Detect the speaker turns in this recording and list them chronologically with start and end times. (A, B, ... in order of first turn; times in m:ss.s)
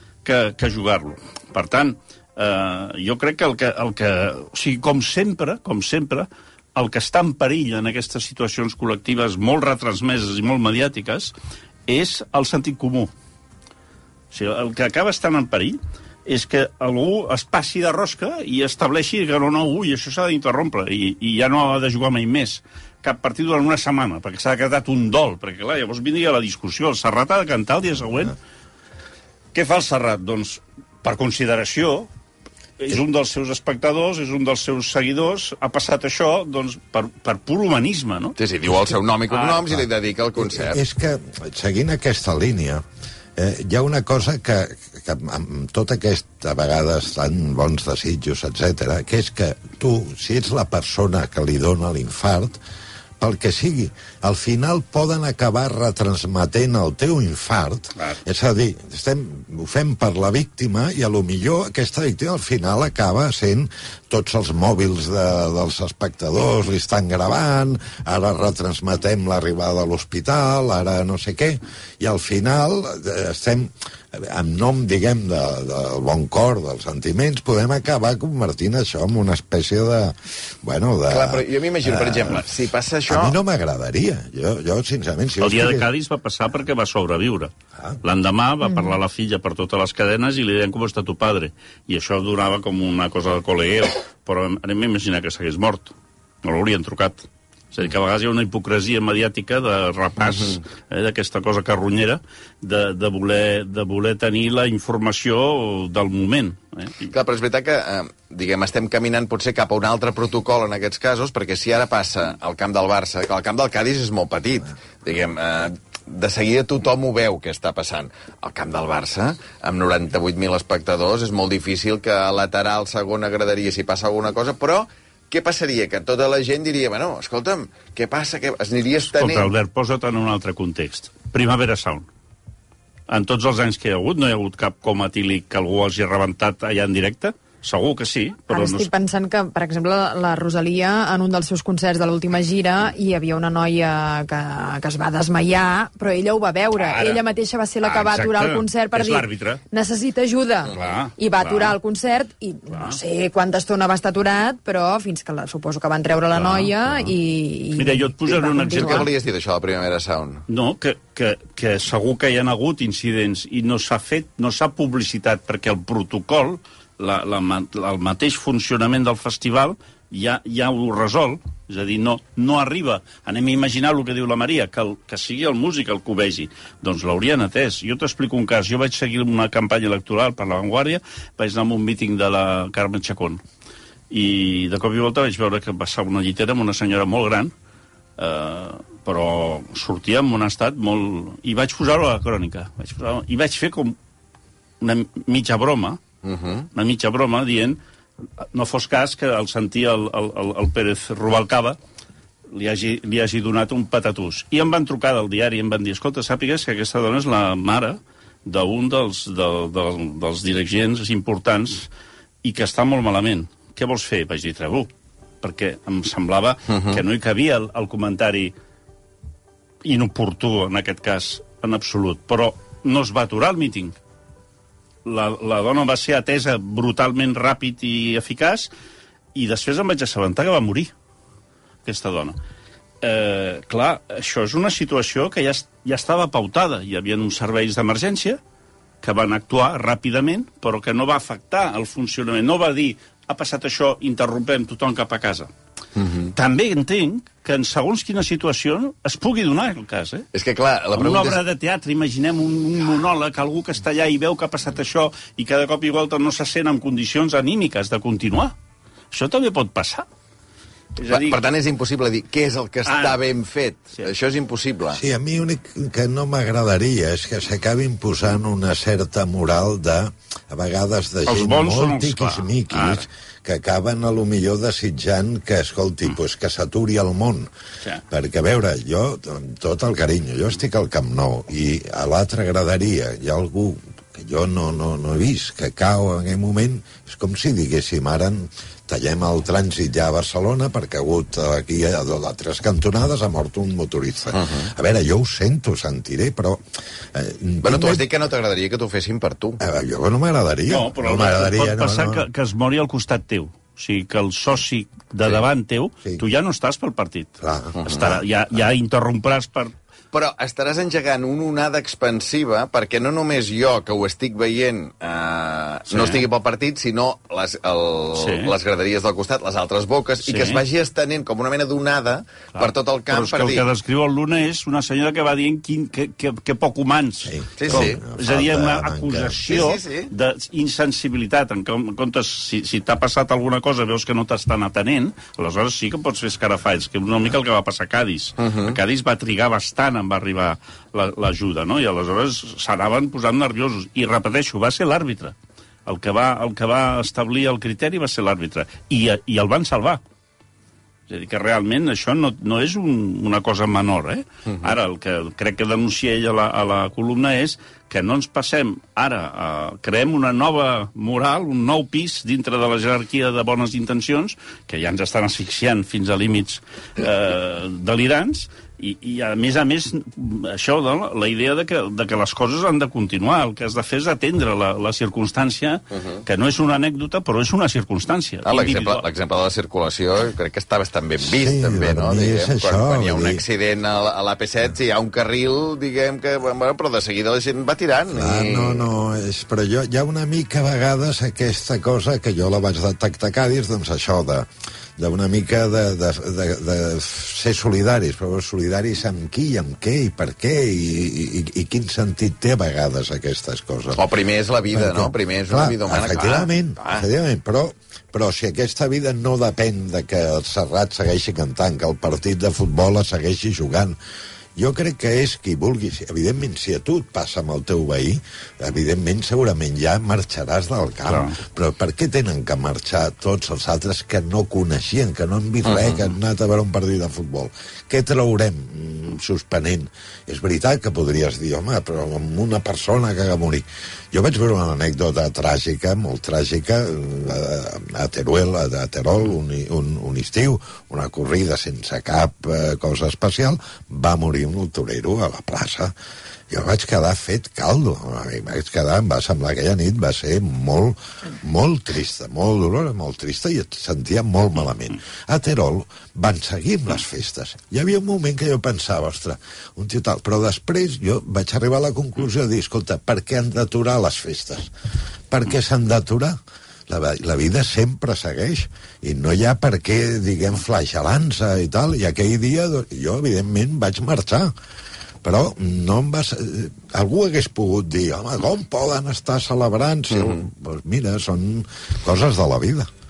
0:00.2-0:11.3 A
0:11.9-0:13.1 A
0:14.3-0:28.4 A
0:29.5-0:32.1 A
0:32.8-0:38.4 A
0:38.4-0:40.8 B
0:39.3-0:39.6 A
0:40.4-0:42.8 C
0:43.4-0:52.6 C
0:53.2-1:22.5 C
1:21.1-1:23.4 B
1:23.1-1:25.9 C
1:25.4-1:27.5 A
1:28.0-1:47.1 A
1:47.1-2:09.5 B
2:09.1-2:12.1 A
2:13.1-2:18.9 A
2:18.5-2:39.1 D
2:26.8-2:27.2 A
2:27.8-2:29.6 A
2:30.7-2:31.8 A
2:32.7-2:33.0 A
2:36.3-2:37.1 A
2:37.8-2:39.1 A
2:38.8-2:40.4 B
2:40.5-3:03.4 A
3:04.1-3:07.5 A
3:08.2-3:14.0 A
3:14.8-3:16.0 A
3:16.2-3:16.7 B
3:16.7-3:17.8 A
3:18.5-3:21.8 A
3:22.5-3:31.9 A
3:32.4-3:34.9 A
3:35.4-3:38.5 A
3:36.7-3:37.0 B
3:39.8-3:44.0 A
3:45.0-3:48.7 A
3:49.3-3:50.9 A
3:51.8-3:52.4 A
3:53.0-3:58.4 A
3:59.0-4:05.5 A
4:06.0-4:06.3 B
4:06.4-4:10.3 A
4:10.3-4:11.4 B
4:10.9-4:18.6 A
4:19.1-4:20.1 A
4:21.0-4:21.4 A
4:21.1-4:25.0 B
4:22.9-4:23.2 A
4:24.9-4:37.5 C
4:31.3-4:33.1 A
4:38.1-4:56.6 C
4:54.3-4:54.7 B
4:57.1-4:58.0 C
4:57.6-4:59.6 B
4:59.6-5:02.2 C
5:00.7-5:09.7 A
5:07.4-5:08.1 C
5:07.8-5:08.2 B
5:10.1-5:23.7 B
5:15.9-5:16.3 A
5:18.2-5:18.6 A
5:20.2-5:20.6 A
5:22.5-5:50.0 A
5:27.2-5:29.6 C
5:27.6-5:28.0 B
5:29.5-5:30.1 B
5:38.4-5:38.8 B
5:51.1-6:19.0 A
6:18.4-6:28.9 B
6:21.2-6:23.4 C
6:28.1-6:44.0 C
6:44.0-6:47.1 B
6:44.7-6:54.0 C
6:54.6-7:25.9 C
7:01.0-7:01.4 A
7:05.6-7:06.0 B
7:26.5-7:44.7 C
7:45.3-7:46.4 C
7:46.9-7:54.5 C
7:55.2-8:02.9 C
8:00.1-8:00.4 B